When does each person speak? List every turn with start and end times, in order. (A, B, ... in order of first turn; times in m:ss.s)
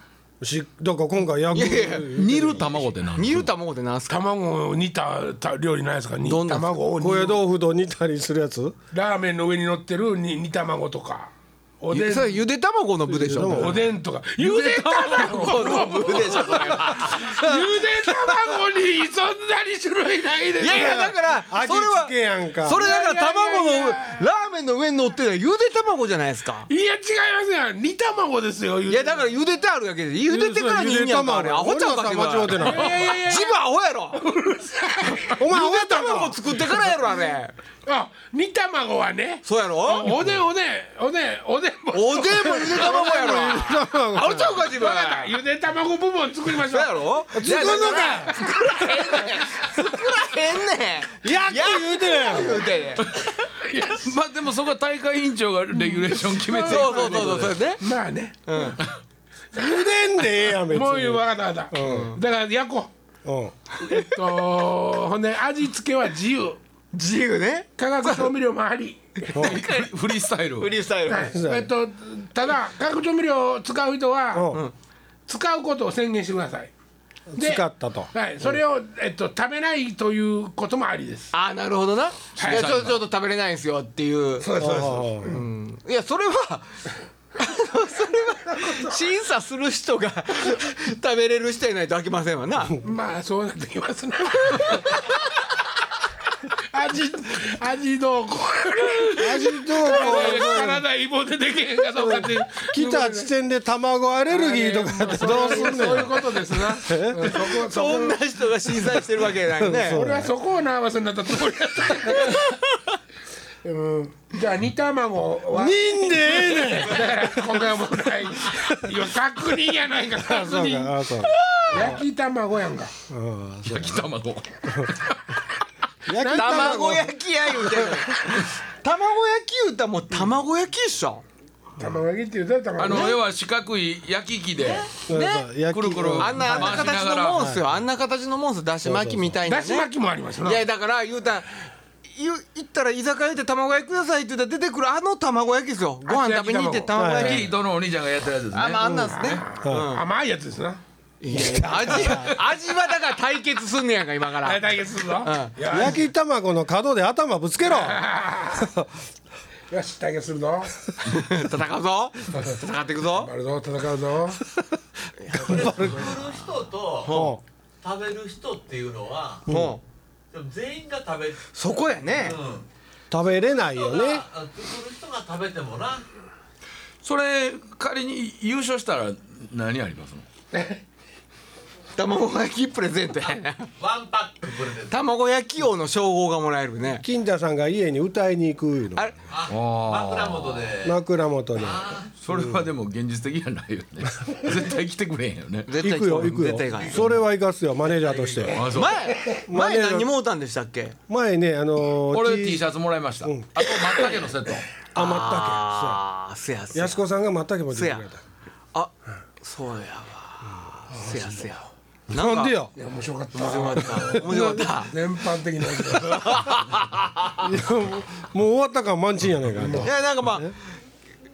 0:00.4-0:03.0 A
0:01.5-0:02.2 B
0:02.1-0:03.5 C
0:03.2-0:04.2 B
0:04.1-0:07.4 D
0:06.2-0:06.7 B
0:07.0-0:08.8 A
0:08.9-0:12.4 D
0:11.9-0:13.9 B
0:13.1-0:13.9 A
0:13.4-0:21.2 D
0:14.4-0:17.5 B
0:20.6-0:26.7 B
0:20.6-0:22.9 A
0:22.7-0:24.2 D
0:26.7-0:29.3 D
0:28.9-0:34.2 B
0:30.3-0:33.0 A
0:32.6-0:35.4 D
0:35.1-0:37.6 B
0:35.4-0:36.4 A
0:36.7-0:37.2 D
0:37.8-0:43.5 D
0:39.4-0:40.2 B
0:41.9-0:45.4 B
0:42.7-0:44.6 A
0:44.5-0:49.4 D
0:46.7-0:53.1 B
0:47.3-0:48.4 A
0:51.2-0:52.6 A
0:53.5-0:54.1 D
0:54.0-0:57.6 C
0:55.8-0:58.8 D
0:56.6-0:57.8 B
0:58.5-0:58.8 B
0:59.5-1:02.2 A
0:59.6-1:02.9 D
1:01.8-1:02.2 B
1:03.2-1:03.5 A
1:03.8-1:06.6 D
1:06.9-1:08.3 B
1:07.8-1:09.5 D
1:09.3-1:09.9 B
1:09.4-1:10.8 C
1:10.6-1:11.4 B
1:11.1-1:14.6 D
1:11.3-1:11.7 A
1:14.3-1:14.6 A
1:15.3-1:16.7 D
1:17.3-1:18.6 A
1:17.4-1:21.3 D
1:21.3-1:24.5 B
1:22.4-1:22.8 D
1:22.4-1:23.0 C
1:24.4-1:25.4 D
1:24.6-1:25.4 A
1:25.3-1:26.7 B
1:27.4-1:32.8 B
1:32.8-1:35.1 D
1:36.6-1:43.3 D
1:39.2-1:40.8 A
1:39.8-1:40.7 B
1:41.9-1:47.4 A
1:44.3-1:48.2 D
1:45.2-1:46.2 B
1:47.2-1:50.1 B
1:49.6-1:50.3 A
1:49.8-1:52.6 D
1:52.1-1:52.8 B
1:53.6-2:01.0 D
1:55.5-1:57.5 A
1:58.5-1:59.0 A
2:00.2-2:02.0 A
2:01.2-2:02.0 B
2:01.7-2:02.9 D
2:03.1-2:04.0 A
2:03.6-2:05.2 C
2:06.1-2:07.2 A
2:06.2-2:11.2 B
2:06.2-2:06.8 D
2:11.8-2:13.2 D
2:12.8-2:14.9 C
2:12.9-2:13.2 B
2:14.9-2:15.5 B
2:15.1-2:17.6 A
2:15.7-2:17.5 C
2:16.2-2:19.9 B
2:18.8-2:19.4 A
2:19.4-2:20.7 D
2:20.4-2:27.5 B
2:26.1-2:27.0 D
2:26.9-2:27.4 A
2:27.1-2:29.1 C
2:28.5-2:30.0 B
2:28.8-2:29.9 A
2:29.1-2:30.8 D
2:31.2-2:35.9 B
2:31.4-2:32.3 D
2:31.5-2:32.2 A
2:34.4-2:36.0 D
2:35.7-2:38.9 A
2:37.6-2:38.7 D
2:39.7-2:40.8 D
2:41.0-2:43.3 B
2:42.4-2:42.6 D
2:43.1-2:44.4 D
2:45.2-2:45.7 B
2:45.4-2:47.3 E
2:45.4-2:46.2 A
2:47.0-2:47.4 B
2:47.1-2:47.4 A
2:47.8-2:49.5 E
2:49.5-2:49.7 A
2:49.5-2:49.8 B
2:50.3-2:51.4 E
2:51.5-2:52.4 B
2:52.1-2:52.6 E
2:53.1-2:54.2 A
2:53.4-2:56.0 E
2:57.0-3:00.2 C
3:00.5-3:00.8 D
3:02.0-3:03.7 B
3:03.8-3:05.0 E
3:04.9-3:07.0 B
3:07.0-3:09.1 A
3:09.3-3:11.0 E
3:09.5-3:10.7 C
3:10.8-3:12.7 A
3:11.6-3:12.1 E
3:12.2-3:15.7 C
3:15.7-3:17.1 B
3:15.8-3:18.6 A
3:16.8-3:17.1 E
3:18.1-3:18.5 E
3:18.4-3:19.4 D
3:18.5-3:19.0 C
3:18.6-3:21.0 B
3:19.4-3:20.1 A
3:21.1-3:22.6 A
3:22.1-3:24.7 C
3:23.6-3:24.3 B
3:24.9-3:27.0 B
3:25.0-3:26.0 A
3:26.7-3:28.2 A
3:27.7-3:28.1 B
3:28.7-3:32.6 B
3:32.1-3:32.7 A
3:32.8-3:36.6 D
3:33.3-3:35.0 B
3:34.0-3:34.7 A
3:35.9-3:36.8 B
3:37.4-3:40.5 A
3:39.6-3:39.9 D
3:39.8-3:40.6 B